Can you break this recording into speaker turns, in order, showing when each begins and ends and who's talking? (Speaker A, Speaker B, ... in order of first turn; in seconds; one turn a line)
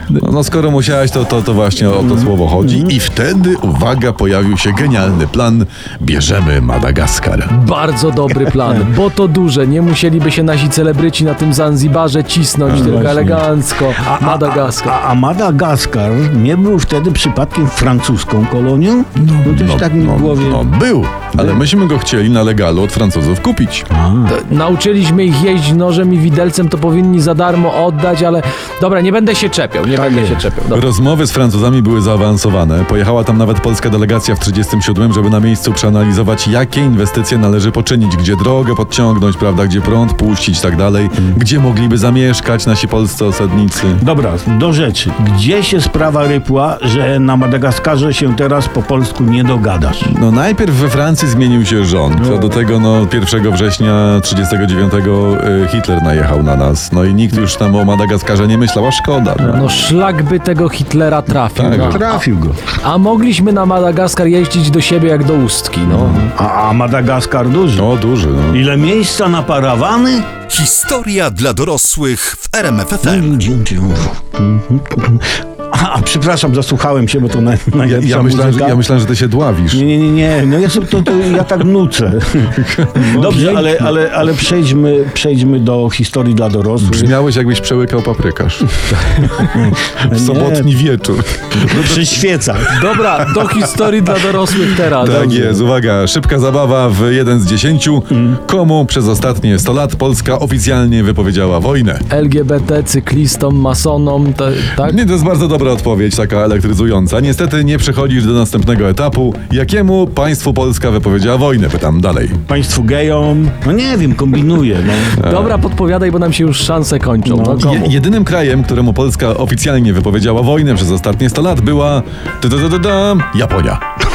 Speaker A: 0.1-7.5
Speaker B: 1.9-3.0
Speaker C: 7.5-15.0
Speaker B: 8.6-8.9
Speaker A: 12.7-13.1
Speaker B: 12.7-20.7
Speaker A: 19.4-23.9
Speaker B: 21.4-21.6
Speaker B: 23.9-24.4
Speaker C: 24.3-30.9
Speaker B: 30.1-30.4
Speaker A: 30.7-44.0
Speaker B: 44.0-50.1
Speaker A: 50.0-59.7
Speaker B: 52.2-52.6
Speaker C: 59.5-62.2
Speaker A: 61.5-62.0
Speaker B: 61.9-62.6
Speaker C: 62.7-66.3
Speaker B: 65.9-67.9
Speaker A: 67.8-68.6
Speaker B: 68.5-70.3
Speaker D: 70.5-73.4
Speaker B: 73.0-78.8
Speaker A: 77.8-79.9
Speaker B: 79.7-87.2
Speaker A: 82.6-83.9
Speaker A: 86.8-88.7
Speaker B: 89.5-90.7
Speaker A: 90.1-93.7
Speaker B: 91.6-92.7
Speaker C: 92.7-95.6
Speaker A: 95.0-102.0
Speaker C: 102.1-105.0
Speaker A: 104.8-112.4
Speaker B: 112.5-115.2
Speaker C: 115.2-117.9
Speaker A: 115.2-115.6
Speaker B: 117.2-117.8
Speaker A: 117.6-123.8